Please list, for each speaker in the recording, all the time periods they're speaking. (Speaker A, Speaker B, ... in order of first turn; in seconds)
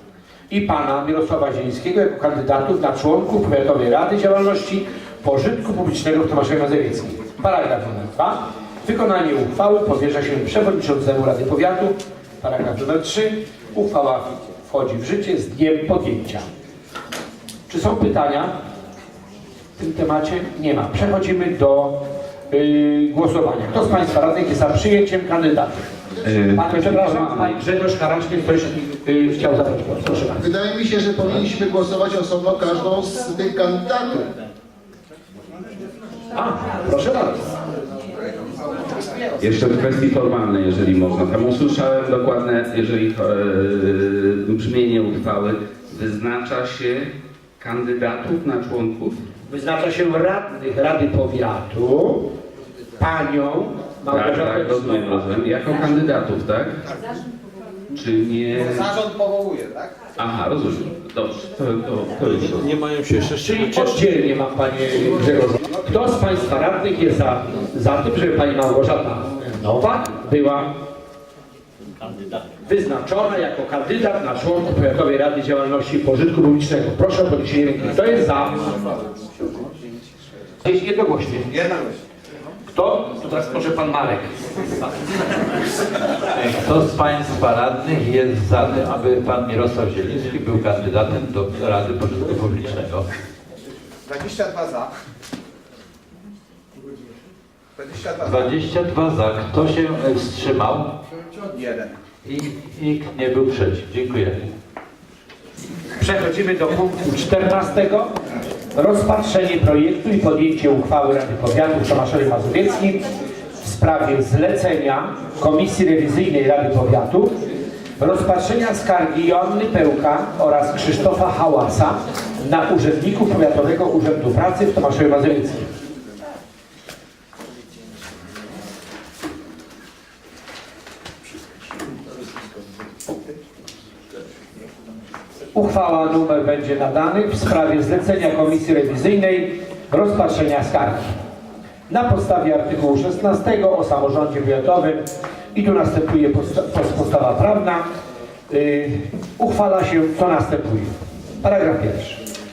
Speaker A: 0.5-16.5, 17.7-18.5, 19.8-25.9, 26.5-30.5, 36.3-37.5, 49.5-52.3, 53.0-55.2, 63.4-70.7, 72.7-78.7, 80.6-81.7, 82.7-84.3, 106.0-108.1, 108.7-113.0, 113.6-117.4, 118.0-125.7, 135.5-141.1, 141.9-145.0, 145.5-147.8, 148.5-152.2
Speaker B: 26.2-27.6, 39.4-49.2, 54.1-56.8, 57.9-59.0, 60.2-62.7
Speaker C: 30.4-34.3
Speaker D: 59.1-59.8, 94.0-94.9, 97.8-98.6, 101.4-101.9
Speaker E: 62.8-63.3, 86.3-93.0, 98.2-101.0, 102.2-104.5